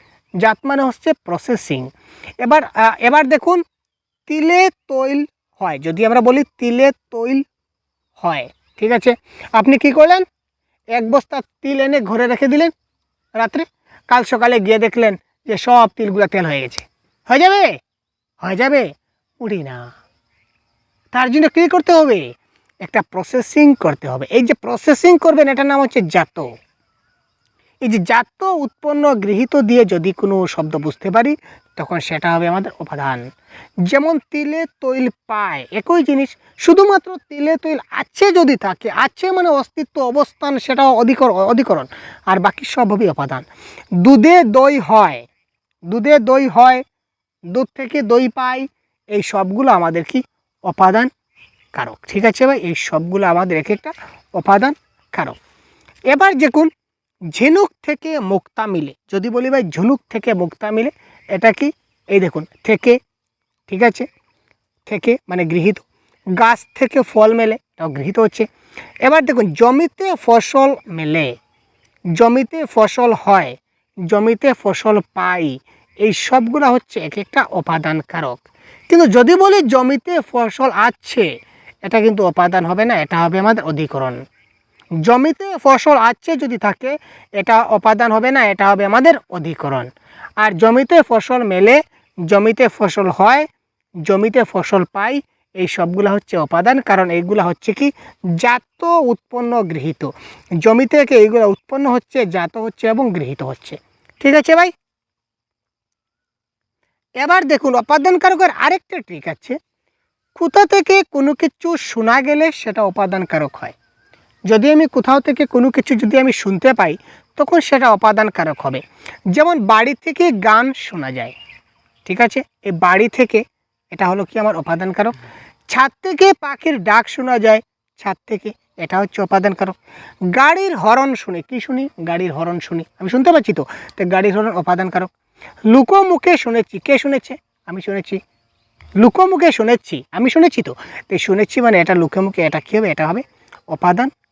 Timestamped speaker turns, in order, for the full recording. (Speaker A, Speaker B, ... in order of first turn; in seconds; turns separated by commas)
Speaker A: 0.4-1.9, Speaker A: 2.4-3.6, Speaker A: 4.3-7.4, Speaker A: 8.2-10.2, Speaker A: 10.9-12.7, Speaker A: 13.4-17.7, Speaker A: 18.4-18.9, Speaker A: 19.4-19.9, Speaker A: 21.1-22.2, Speaker A: 22.8-26.5, Speaker A: 27.8-33.2, Speaker A: 33.9-43.5, Speaker A: 44.0-45.2, Speaker A: 45.9-46.8, Speaker A: 47.5-51.1, Speaker A: 51.7-55.4, Speaker A: 56.1-56.7, Speaker A: 57.3-63.0, Speaker A: 63.7-64.1, Speaker A: 64.9-65.8, Speaker A: 66.4-68.5, Speaker A: 69.0-71.3, Speaker A: 72.2-73.5, Speaker A: 74.1-81.3, Speaker A: 81.8-84.2, Speaker A: 85.0-89.9, Speaker A: 90.4-93.4, Speaker A: 94.0-100.1, Speaker A: 100.6-104.7, Speaker A: 107.2-109.6, Speaker A: 110.3-113.7, Speaker A: 114.5-121.3, Speaker A: 122.0-125.1, Speaker A: 125.7-129.8, Speaker A: 130.3-135.1, Speaker A: 135.7-138.2, Speaker A: 139.0-144.1